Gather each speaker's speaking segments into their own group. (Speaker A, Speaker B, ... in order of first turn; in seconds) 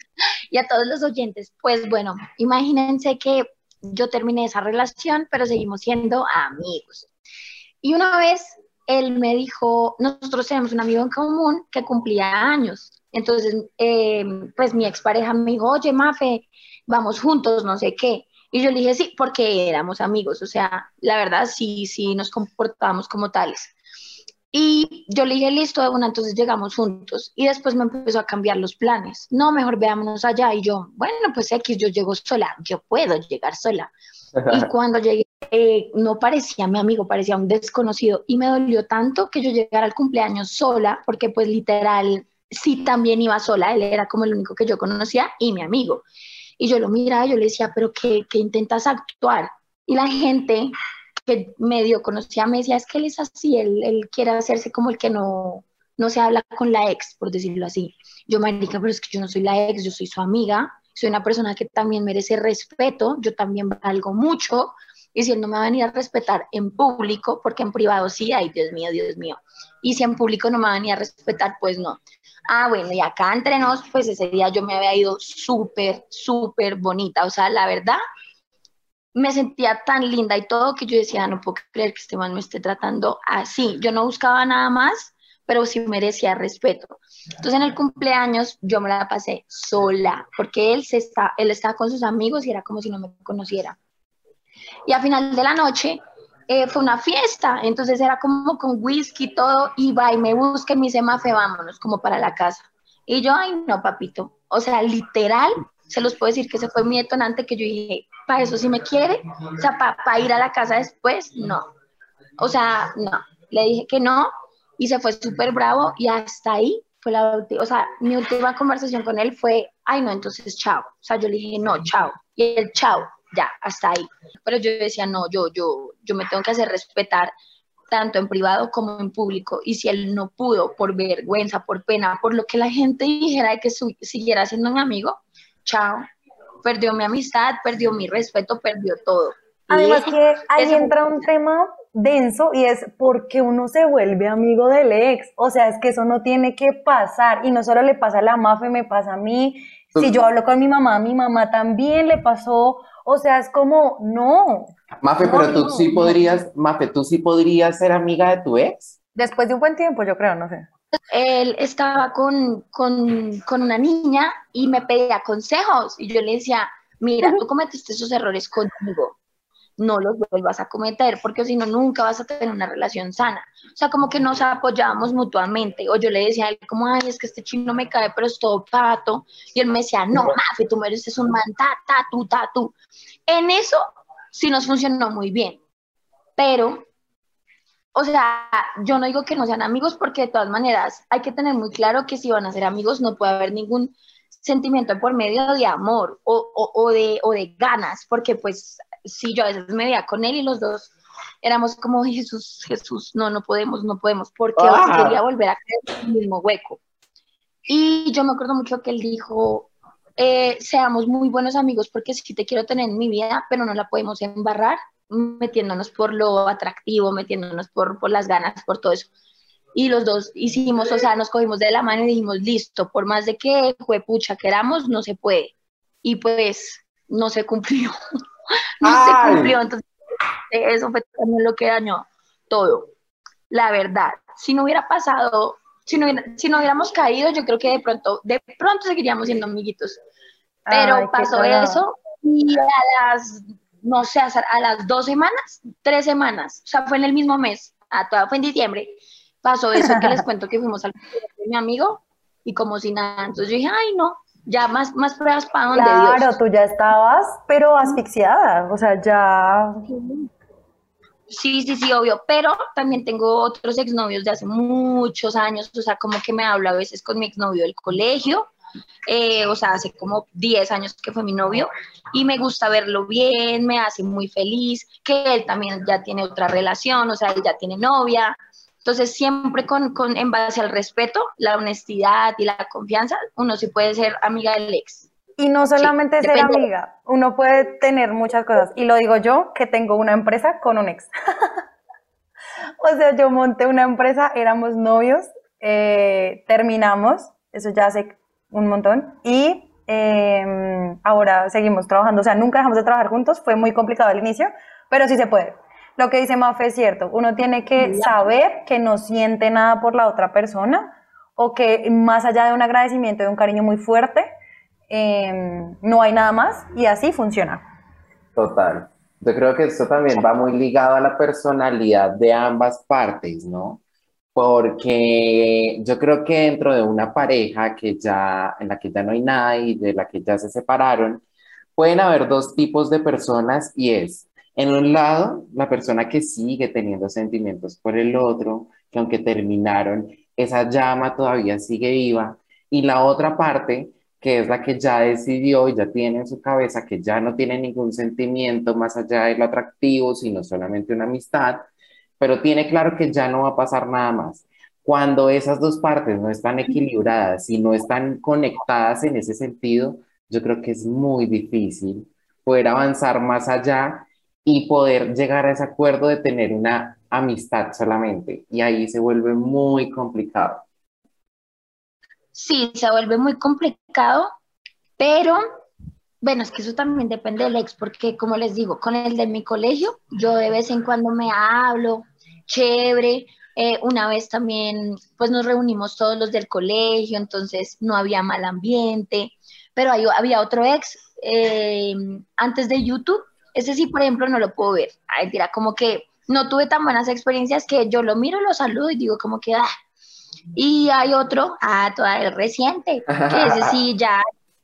Speaker A: 0.5-7.1, 7.8-23.7, 24.5-33.9, 34.5-46.0, 46.6-50.7, 51.3-72.0, 72.5-78.0, 79.2-93.8, 94.9-111.7, 112.4-127.3, 127.9-136.0, 136.6-141.2, 155.2-156.4, 161.1-169.2, 169.8-182.7, 183.3-185.6, 186.4-186.9, 187.9-206.8, 207.7-219.1, 219.7-225.5, 226.0-228.0, 228.8-229.9, 230.5-232.9, 233.5-240.0, 240.7-256.3, 259.9-260.3, 261.3-268.5, 269.1-285.1, 285.7-286.6, 307.8-308.3, 372.3-374.3, 375.0-375.4, 376.2-399.7, 400.6-404.2
Speaker B: 34.4-34.7, 155.0-159.0, 204.6-205.2, 228.8-229.6, 318.4-323.8, 324.4-331.2, 331.8-351.7, 352.2-370.6, 403.1-403.8
Speaker C: 139.7-154.8, 159.2-160.7, 240.7-241.8, 249.8-250.2, 255.7-259.9, 285.4-291.6, 292.8-314.3, 314.9-317.7